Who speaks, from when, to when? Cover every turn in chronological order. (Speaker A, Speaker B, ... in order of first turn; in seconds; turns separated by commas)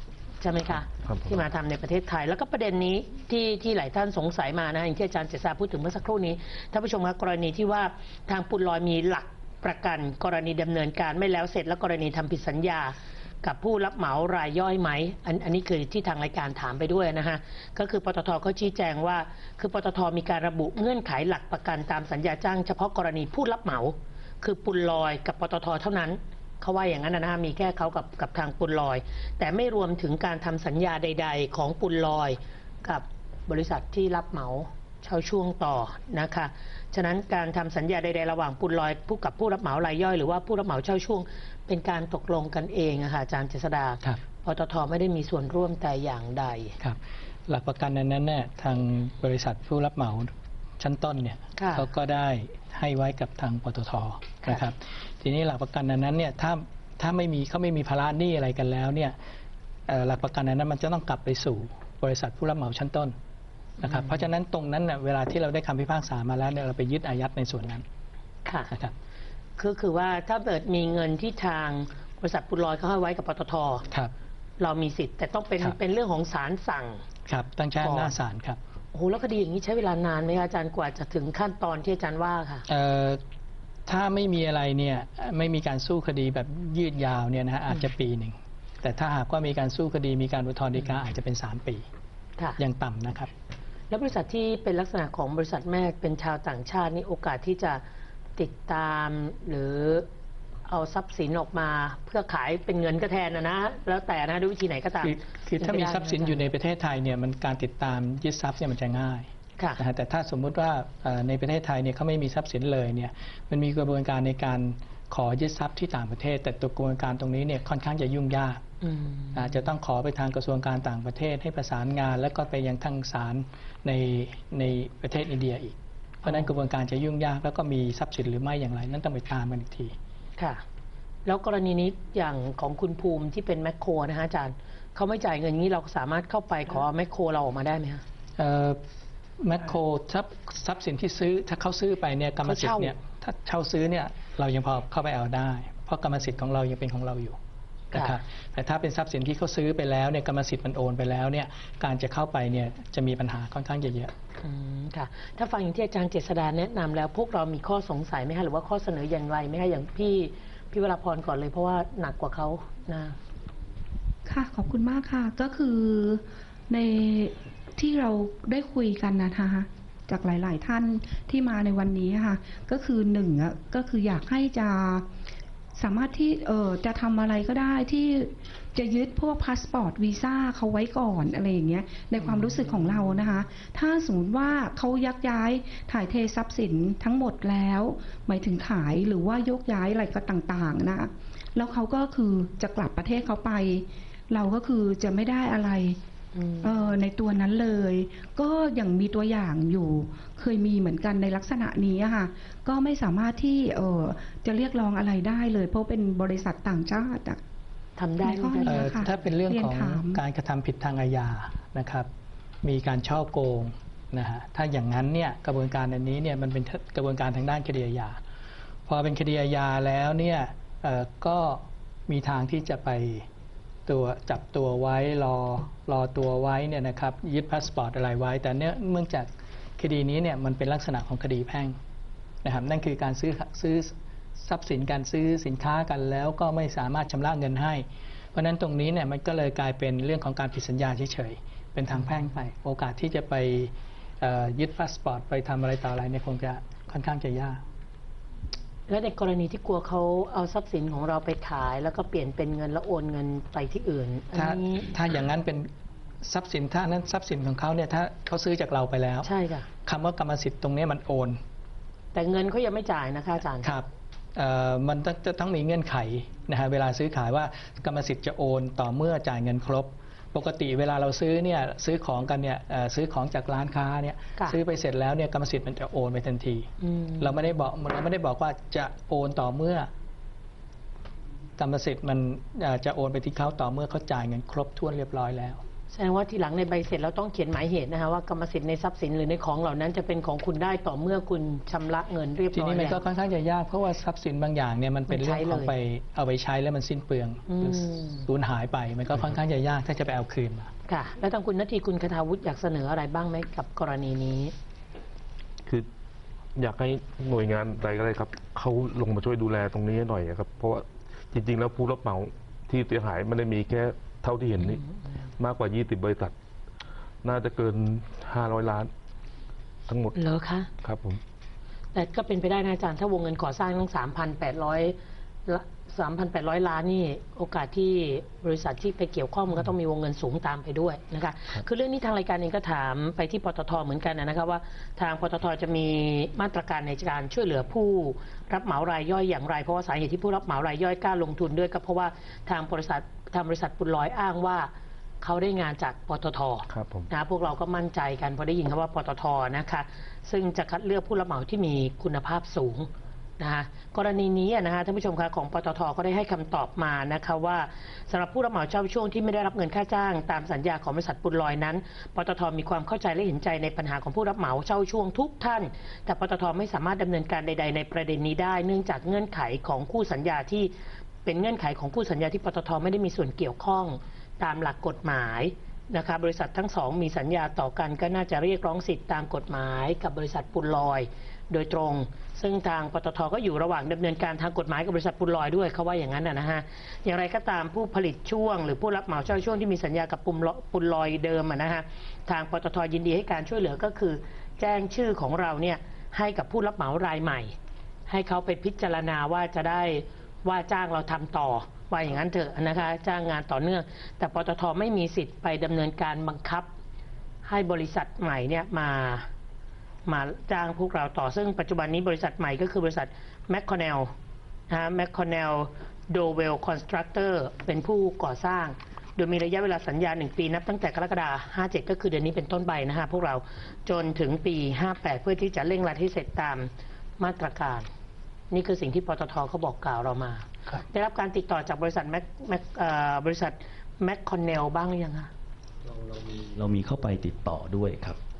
Speaker A: 0.4-46.8, Speaker B: 1.0-1.4, Speaker C: 46.8-59.2, Speaker A: 51.5-51.9, Speaker C: 59.9-63.1, Speaker A: 63.8-64.2, Speaker C: 63.8-67.8, Speaker A: 68.5-68.7, Speaker C: 68.7-68.9, Speaker A: 69.6-73.8, Speaker A: 74.6-77.0, Speaker C: 77.3-78.6, Speaker A: 77.8-78.1, Speaker A: 78.9-82.6, Speaker C: 82.7-83.2, Speaker C: 83.9-91.8, Speaker C: 92.6-93.3, Speaker A: 93.9-97.8, Speaker A: 98.4-100.1, Speaker A: 100.7-106.4, Speaker C: 105.0-118.6, Speaker A: 118.8-119.7, Speaker C: 119.3-129.9, Speaker A: 126.2-126.5, Speaker A: 130.4-130.6, Speaker A: 131.2-138.0, Speaker C: 138.4-138.8, Speaker C: 139.4-147.4, Speaker A: 142.4-142.9, Speaker A: 147.9-148.2, Speaker C: 147.9-154.1, Speaker A: 154.4-163.2, Speaker D: 164.2-175.1, Speaker D: 175.7-196.0, Speaker A: 182.2-183.4, Speaker A: 196.3-197.0, Speaker D: 196.6-207.4, Speaker A: 208.0-209.2, Speaker D: 208.2-210.2, Speaker C: 208.7-212.1, Speaker C: 212.6-218.2, Speaker C: 218.8-223.3, Speaker C: 223.9-231.8, Speaker C: 232.4-247.6, Speaker A: 241.9-242.3, Speaker A: 248.9-254.9, Speaker C: 254.3-255.7, Speaker C: 256.2-259.3, Speaker A: 259.2-259.7, Speaker C: 259.8-261.4, Speaker A: 262.1-263.7, Speaker C: 263.6-279.9, Speaker A: 276.8-277.3, Speaker C: 281.6-285.6, Speaker A: 285.9-293.0, Speaker C: 292.5-300.7, Speaker A: 295.1-295.7, Speaker A: 297.5-298.3, Speaker A: 300.9-304.5, Speaker B: 306.5-314.8, Speaker B: 315.4-316.3, Speaker B: 317.2-318.9, Speaker B: 319.9-320.2, Speaker A: 320.1-320.7, Speaker B: 320.8-321.2, Speaker A: 321.9-370.7, Speaker B: 346.7-347.1, Speaker A: 371.2-397.5, Speaker A: 398.1-406.7, Speaker A: 407.4-409.3, Speaker A: 410.1-414.1, Speaker A: 414.7-427.9, Speaker A: 428.5-435.3, Speaker E: 436.1-438.2